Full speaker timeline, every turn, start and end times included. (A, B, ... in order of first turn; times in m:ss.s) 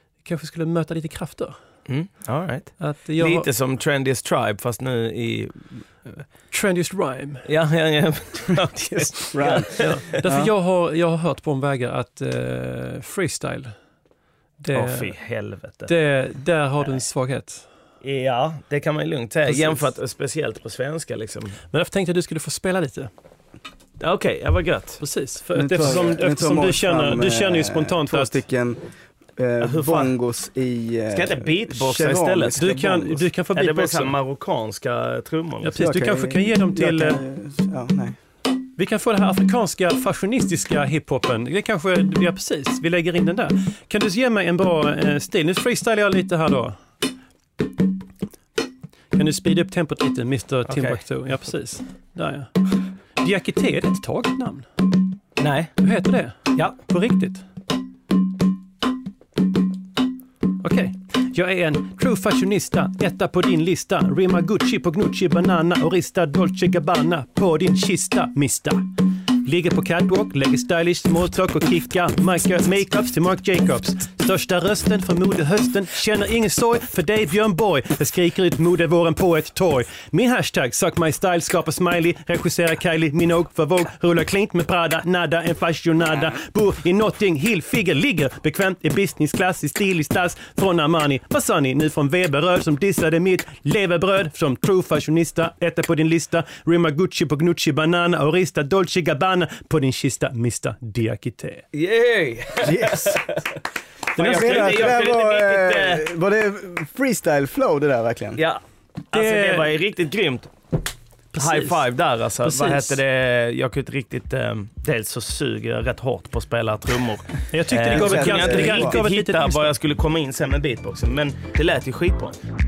0:00.2-0:01.6 A
0:01.9-0:06.2 B
0:02.8-0:03.5 A
0:06.5-0:07.5 A
0:07.4-0:10.2 B
0:09.3-0:10.5 C
0:09.8-0:13.8 A
0:14.6-0:15.2 A
0:14.7-0:15.9 B
0:15.9-0:17.7 A
0:18.0-0:21.6 B
0:19.5-0:19.8 A
0:21.7-0:23.1 A
0:24.0-0:25.0 B
0:25.0-0:28.4 A
0:25.6-0:28.8 C
0:29.4-0:32.8 C
0:29.6-0:30.1 B
0:31.1-0:35.8 B
0:32.6-0:34.2 A
0:35.6-0:37.2 A
0:35.8-0:38.2 C
0:38.8-0:46.8 A
0:49.1-0:54.7 A
0:50.7-0:51.0 B
0:55.4-0:55.8 B
0:55.8-0:57.4 A
1:00.6-1:08.9 A
1:09.4-1:41.6 A
1:41.7-1:43.4 B
1:42.6-1:43.2 C
1:44.1-1:44.8 A
1:44.2-1:46.0 B
1:44.2-1:48.4 C
1:48.4-1:50.5 B
1:49.1-1:49.7 A
1:51.3-1:51.8 A
1:51.4-2:02.4 B
1:52.4-1:53.0 A
1:57.5-1:59.7 A
1:57.9-1:58.9 C